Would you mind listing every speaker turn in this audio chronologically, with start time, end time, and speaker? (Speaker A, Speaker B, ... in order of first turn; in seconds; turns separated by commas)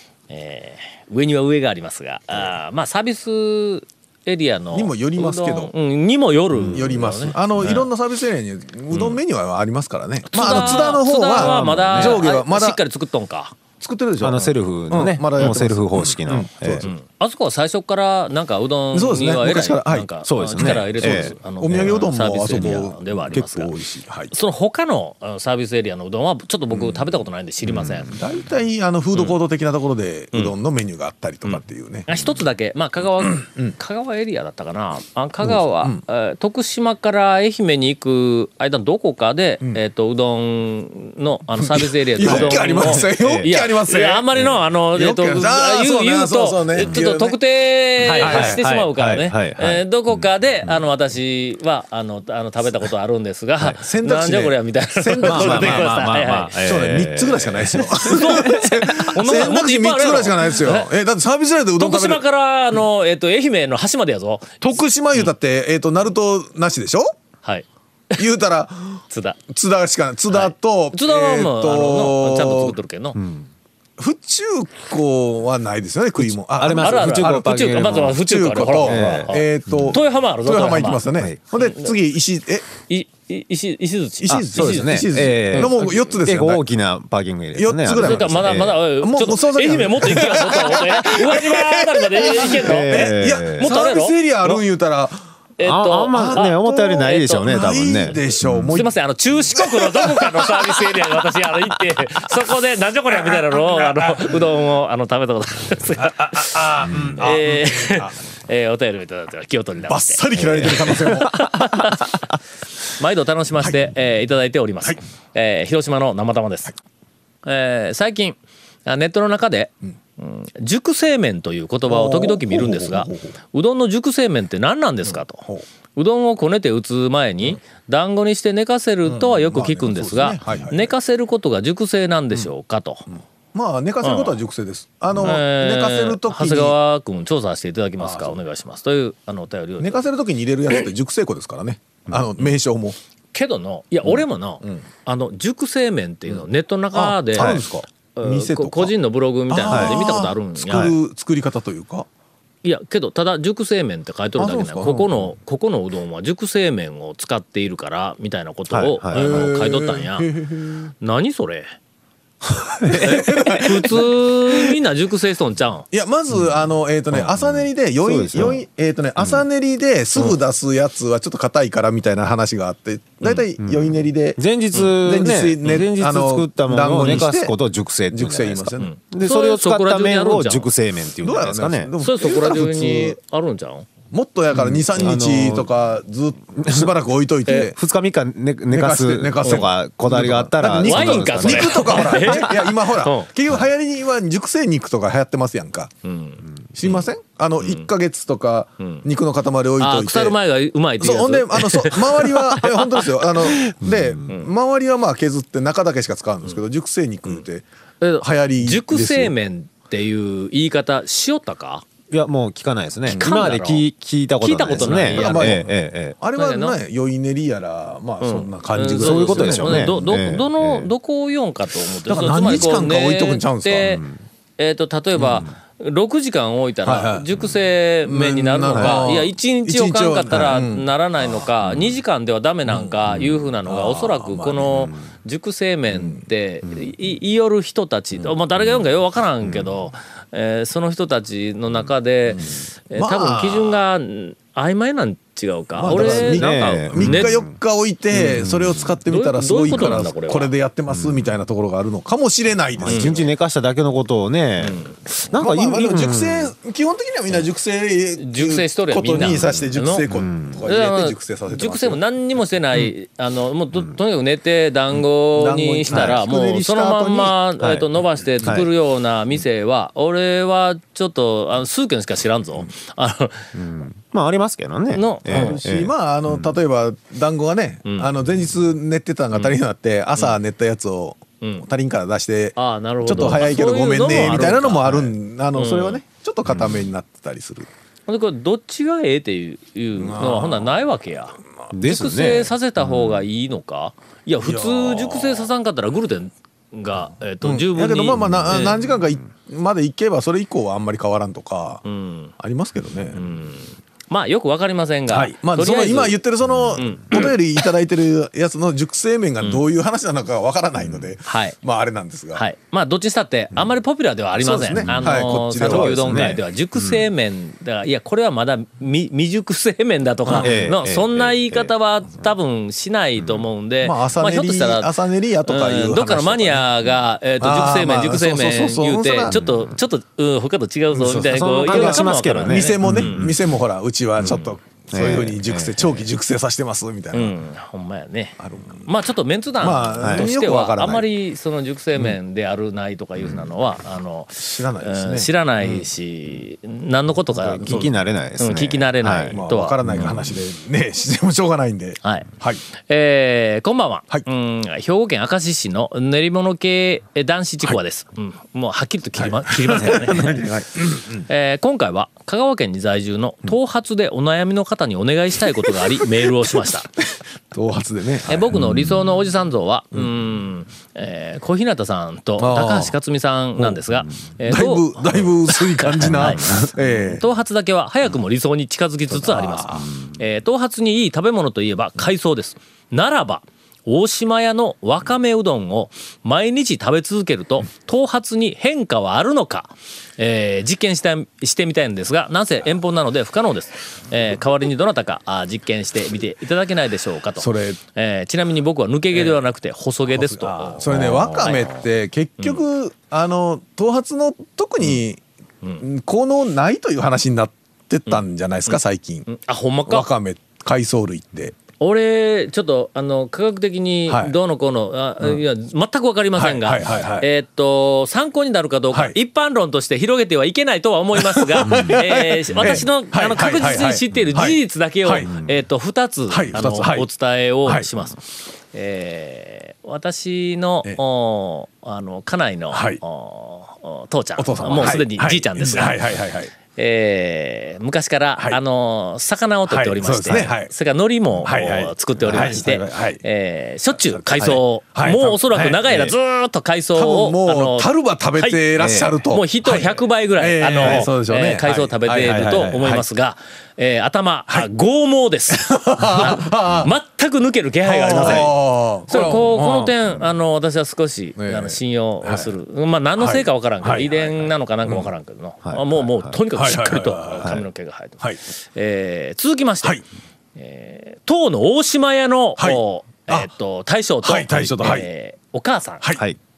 Speaker A: 0.3-7.8, Speaker B: 4.7-5.7, Speaker B: 6.5-12.8, Speaker A: 10.3-13.6, Speaker C: 10.5-12.2, Speaker B: 13.8-16.9, Speaker C: 14.2-16.9, Speaker A: 16.8-23.7, Speaker B: 18.9-24.3, Speaker C: 19.7-22.0, Speaker A: 24.3-28.1, Speaker B: 26.7-27.0, Speaker C: 27.7-28.1, Speaker B: 28.1-32.1, Speaker A: 31.4-56.6, Speaker B: 33.3-33.8, Speaker B: 35.4-36.0, Speaker B: 41.6-44.2, Speaker C: 42.2-43.5, Speaker B: 44.9-47.4, Speaker B: 48.0-48.7, Speaker C: 48.1-50.8, Speaker B: 53.8-62.2, Speaker C: 55.2-58.4, Speaker A: 57.9-60.9, Speaker A: 61.8-65.3, Speaker B: 64.6-67.1, Speaker A: 67.4-68.2, Speaker B: 68.2-72.8, Speaker A: 69.1-69.4, Speaker A: 70.3-73.2, Speaker C: 73.1-73.5, Speaker B: 74.0-82.7, Speaker C: 76.2-78.2, Speaker A: 76.8-81.0, Speaker C: 78.8-80.0, Speaker A: 81.5-81.9, Speaker A: 82.9-85.0, Speaker B: 84.2-86.6, Speaker C: 84.3-88.8, Speaker B: 87.5-95.2, Speaker A: 88.0-94.6, Speaker C: 92.3-93.7, Speaker A: 95.6-97.8, Speaker C: 95.6-98.8, Speaker B: 96.1-98.9, Speaker A: 98.7-112.2, Speaker B: 99.5-100.9, Speaker B: 103.1-104.3, Speaker B: 106.0-108.2, Speaker B: 109.9-112.0, Speaker A: 113.0-116.7, Speaker A: 117.4-133.0, Speaker B: 121.9-123.3, Speaker B: 129.0-130.9, Speaker B: 133.1-136.8, Speaker A: 134.0-134.4, Speaker A: 135.2-140.0, Speaker B: 138.0-138.4, Speaker B: 139.8-143.0, Speaker A: 143.3-147.6, Speaker B: 146.9-148.9, Speaker C: 147.3-147.7, Speaker A: 148.2-150.9, Speaker B: 149.5-152.1, Speaker C: 149.7-150.1, Speaker A: 152.6-160.3, Speaker B: 154.4-155.3, Speaker C: 158.7-159.2, Speaker B: 159.1-160.9, Speaker A: 161.0-161.7, Speaker B: 162.8-164.6, Speaker C: 162.8-163.6, Speaker A: 162.9-165.8, Speaker B: 165.9-177.5, Speaker C: 167.1-168.6, Speaker C: 169.2-169.4, Speaker C: 173.6-181.9, Speaker B: 178.1-178.9, Speaker A: 178.8-180.7, Speaker B: 181.2-183.2, Speaker A: 182.0-183.9, Speaker B: 184.1-187.8, Speaker C: 184.5-185.7, Speaker C: 186.6-186.9, Speaker C: 187.5-192.4, Speaker B: 188.7-195.9, Speaker A: 190.8-193.3, Speaker A: 196.0-197.1, Speaker B: 196.7-200.3, Speaker A: 197.6-197.9, Speaker A: 199.8-203.6, Speaker B: 201.0-207.6, Speaker A: 208.0-211.8, Speaker B: 208.2-209.3, Speaker C: 212.1-216.2, Speaker A: 213.1-213.9, Speaker A: 214.4-215.6, Speaker B: 214.8-219.9, Speaker A: 216.3-216.8, Speaker A: 218.2-224.0, Speaker C: 219.0-220.9, Speaker B: 222.1-224.0, Speaker C: 223.8-224.2, Speaker A: 224.6-247.4, Speaker B: 225.2-225.4, Speaker B: 226.8-227.3, Speaker B: 228.1-231.5, Speaker C: 228.7-229.0, Speaker B: 232.7-232.9, Speaker B: 233.6-234.9, Speaker B: 235.9-236.2, Speaker B: 242.3-243.8, Speaker B: 245.7-253.3, Speaker C: 245.9-247.5, Speaker C: 248.3-248.9, Speaker A: 249.1-250.5, Speaker C: 250.9-251.3, Speaker C: 252.8-256.5, Speaker A: 252.9-253.2, Speaker A: 254.6-255.0, Speaker B: 255.3-262.0, Speaker A: 258.2-260.0, Speaker C: 259.2-260.6, Speaker A: 260.6-273.5, Speaker B: 265.3-267.4, Speaker C: 265.9-266.2, Speaker C: 267.6-267.9, Speaker C: 268.4-268.7, Speaker C: 273.5-276.5, Speaker A: 274.9-275.6, Speaker B: 275.3-287.7, Speaker A: 282.6-286.0, Speaker C: 286.5-286.9, Speaker A: 288.1-298.8, Speaker B: 290.0-290.8, Speaker C: 291.7-292.5, Speaker B: 294.4-295.5, Speaker B: 297.4-301.8, Speaker A: 301.9-302.3, Speaker B: 302.4-303.2, Speaker A: 303.1-306.2, Speaker B: 305.1-312.4, Speaker A: 306.7-307.3, Speaker A: 311.2-311.6, Speaker A: 312.3-324.9, Speaker B: 314.4-316.4, Speaker C: 314.8-317.1, Speaker B: 320.3-320.7, Speaker C: 320.3-321.7, Speaker C: 323.2-323.4, Speaker B: 323.8-326.7, Speaker A: 325.4-333.3, Speaker B: 327.4-329.4, Speaker C: 329.3-329.7, Speaker B: 330.9-337.4, Speaker C: 331.0-333.4, Speaker A: 334.2-334.6, Speaker C: 334.9-335.9, Speaker A: 337.1-349.8, Speaker B: 338.4-338.9, Speaker B: 339.6-341.1, Speaker C: 340.0-340.3, Speaker B: 344.4-345.3, Speaker C: 347.3-349.4, Speaker B: 347.6-347.9, Speaker B: 349.3-352.6, Speaker A: 352.0-352.3, Speaker A: 352.8-360.4, Speaker B: 359.2-361.2, Speaker C: 359.8-360.6, Speaker A: 361.3-366.9, Speaker B: 367.5-368.8, Speaker A: 368.3-401.8, Speaker B: 372.4-372.9, Speaker B: 374.4-377.2, Speaker C: 376.3-376.7, Speaker B: 379.1-379.9, Speaker B: 397.4-397.8, Speaker B: 399.1-399.4, Speaker B: 400.1-405.2, Speaker B: 405.8-409.3, Speaker A: 408.1-410.1, Speaker B: 409.9-411.6, Speaker A: 411.8-428.2, Speaker B: 414.1-414.3, Speaker B: 416.4-417.3, Speaker B: 418.9-419.2, Speaker B: 421.2-425.3, Speaker C: 421.6-421.9, Speaker B: 426.3-427.1, Speaker A: 428.7-436.0, Speaker B: 432.7-433.0, Speaker B: 434.4-436.5, Speaker A: 436.7-448.6, Speaker B: 439.7-440.7, Speaker B: 441.4-443.2, Speaker C: 442.2-442.6, Speaker B: 443.9-446.1, Speaker B: 446.9-453.0, Speaker C: 448.8-449.1, Speaker A: 449.2-458.5, Speaker C: 450.8-451.1, Speaker B: 455.5-456.9, Speaker B: 457.8-459.9, Speaker A: 459.1-468.2, Speaker B: 461.4-462.5, Speaker B: 463.2-465.1, Speaker C: 465.6-466.4, Speaker B: 466.5-467.6, Speaker A: 468.7-470.0, Speaker A: 470.6-476.1, Speaker B: 472.6-473.5, Speaker B: 474.2-475.1